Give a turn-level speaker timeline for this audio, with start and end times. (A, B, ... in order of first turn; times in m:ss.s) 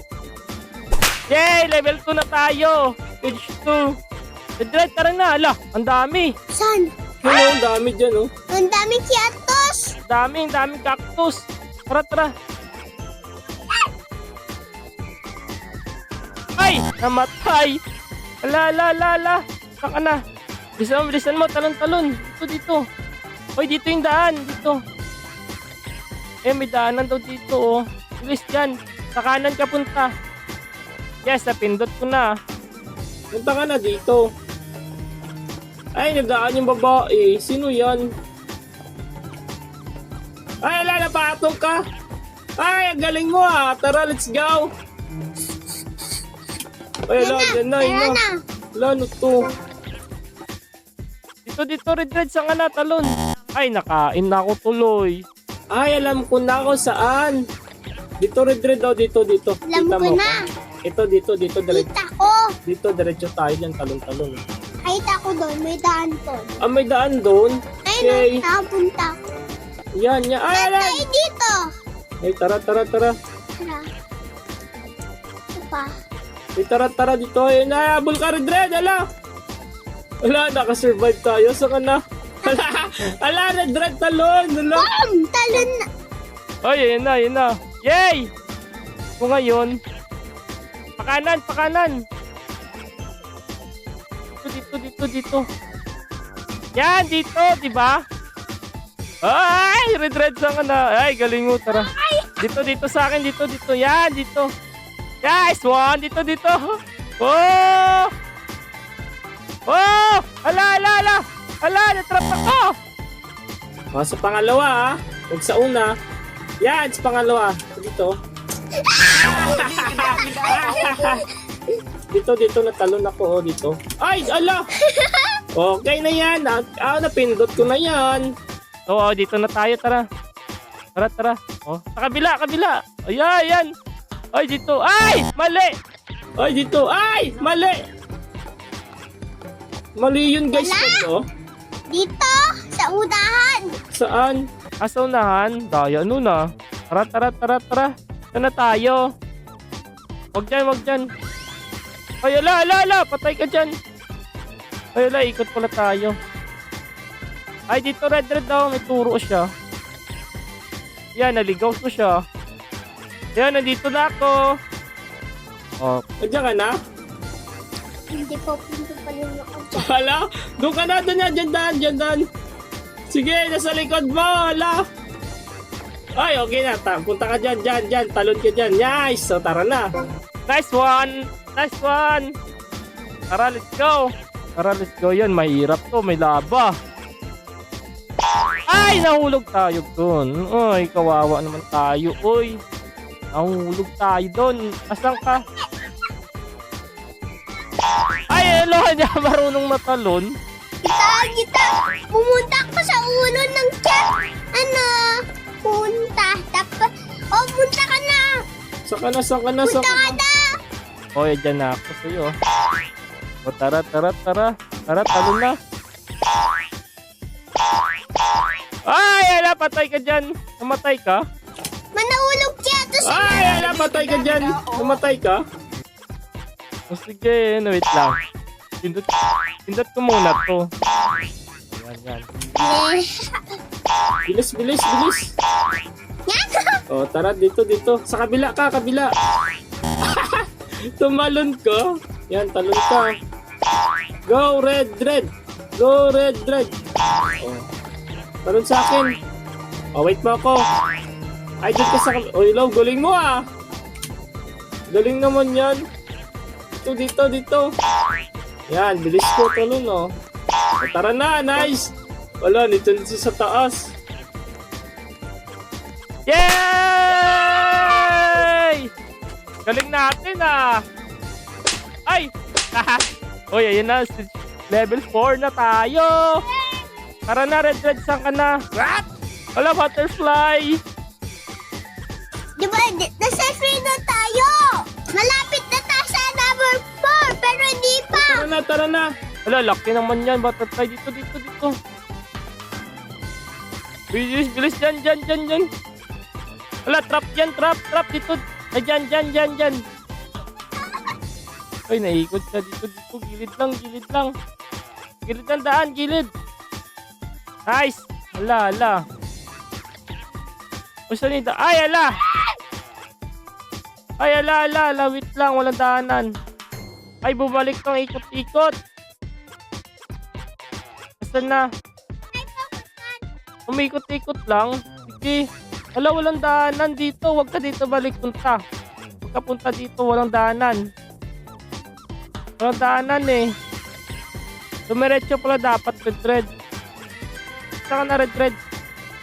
0:01.3-0:03.9 A
0:04.6-0:06.3 A
0:06.5-0:06.9 B
0:07.2-0:08.3 A
0:08.5-0:09.9 B
0:10.1-0:12.3 A
0:16.6-0:17.8 A
0:18.4-0:20.2 A
0:20.8-0:22.8 A
0:23.6-0:24.8 A
0:26.4-0:30.1 A
0:31.2-0:32.3 A
0:33.3-0:34.2 A
0:36.0-0:38.0 A
0:40.6-0:41.8 A
0:42.6-0:44.6 A
0:47.1-0:48.2 A
0:47.2-0:48.3 B
0:48.8-0:49.4 A
0:51.4-0:55.2 A
0:55.7-0:57.4 A
0:58.2-1:01.8 A
0:59.7-1:00.4 B
1:01.7-1:02.5 B
1:02.7-1:04.4 A
1:04.8-1:06.5 B
1:06.6-1:08.4 A
1:07.9-1:09.1 B
1:10.0-1:11.0 A
1:10.5-1:11.6 B
1:12.2-1:13.1 A
1:13.6-1:13.8 B
1:15.6-1:15.9 B
1:16.6-1:19.0 A
1:20.2-1:24.8 A
1:24.7-1:25.8 B
1:26.6-1:28.3 A
1:29.2-1:29.8 A
1:31.0-1:32.0 A
1:34.3-1:35.4 A
1:36.8-1:38.0 A
1:39.2-1:41.9 A
1:41.7-1:42.3 B
1:42.4-1:44.5 A
1:45.2-1:48.1 A
1:49.7-1:52.7 A
1:53.9-1:55.9 A
1:56.6-1:58.1 A
1:58.8-2:01.2 B
1:59.4-2:01.2 A
2:02.1-2:04.6 A
2:04.8-2:05.4 B
2:05.6-2:08.2 A
2:08.9-2:10.0 A
2:10.9-2:13.7 A
2:14.3-2:15.7 A
2:16.4-2:17.8 A
2:20.0-2:21.2 A
2:20.5-2:21.1 B
2:21.9-2:23.7 B
2:23.9-2:26.4 A
2:26.9-2:29.0 A
2:30.3-2:31.1 A
2:32.2-2:33.7 A
2:34.9-2:36.2 A
2:37.7-2:39.5 A
2:41.2-2:42.2 A
2:43.4-2:44.4 A
2:45.8-2:46.7 A
2:48.1-2:49.9 B
2:49.8-2:52.2 A
2:53.1-2:54.8 A
2:56.2-2:59.8 A
3:00.5-3:02.3 A
3:03.3-3:06.8 A
3:08.7-3:12.6 A
3:13.3-3:15.4 A
3:18.3-3:20.3 A
3:20.8-3:25.1 B
3:25.6-3:28.3 B
3:28.9-3:30.2 A
3:29.6-3:30.4 B
3:31.1-3:32.3 A
3:33.4-3:35.6 A
3:38.9-3:41.2 A
3:41.9-3:44.4 B
3:43.1-3:45.4 A
3:46.9-3:48.1 A
3:49.7-3:50.7 A
3:51.7-3:52.2 A
3:52.6-3:53.1 B
3:54.3-3:55.2 A
3:56.3-3:56.8 B
3:56.9-3:59.1 A
4:00.1-4:00.4 A
4:01.0-4:03.0 A
4:04.3-4:06.7 A
4:08.4-4:09.1 A
4:10.0-4:10.6 A
4:11.6-4:13.4 A
4:14.9-4:15.8 A
4:16.8-4:17.6 A
4:18.7-4:20.1 A
4:20.8-4:21.9 A
4:22.4-4:23.9 A
4:26.3-4:28.9 A
4:29.6-4:30.8 A
4:32.1-4:36.4 A
4:37.3-4:38.5 A
4:39.6-4:40.8 A
4:42.6-4:48.4 B
4:48.2-4:51.7 A
4:54.1-4:55.7 A
4:56.9-4:59.8 A
5:01.9-5:04.3 A
5:05.2-5:06.3 A
5:07.7-5:09.0 A
5:11.1-5:12.1 A
5:14.2-5:16.3 A
5:17.2-5:18.7 A
5:21.2-5:21.6 A
5:22.3-5:23.2 B
5:23.7-5:25.4 A
5:25.9-5:28.6 A
5:29.2-5:30.8 A
5:32.6-5:33.5 A
5:34.9-5:36.5 A
5:37.9-5:38.6 A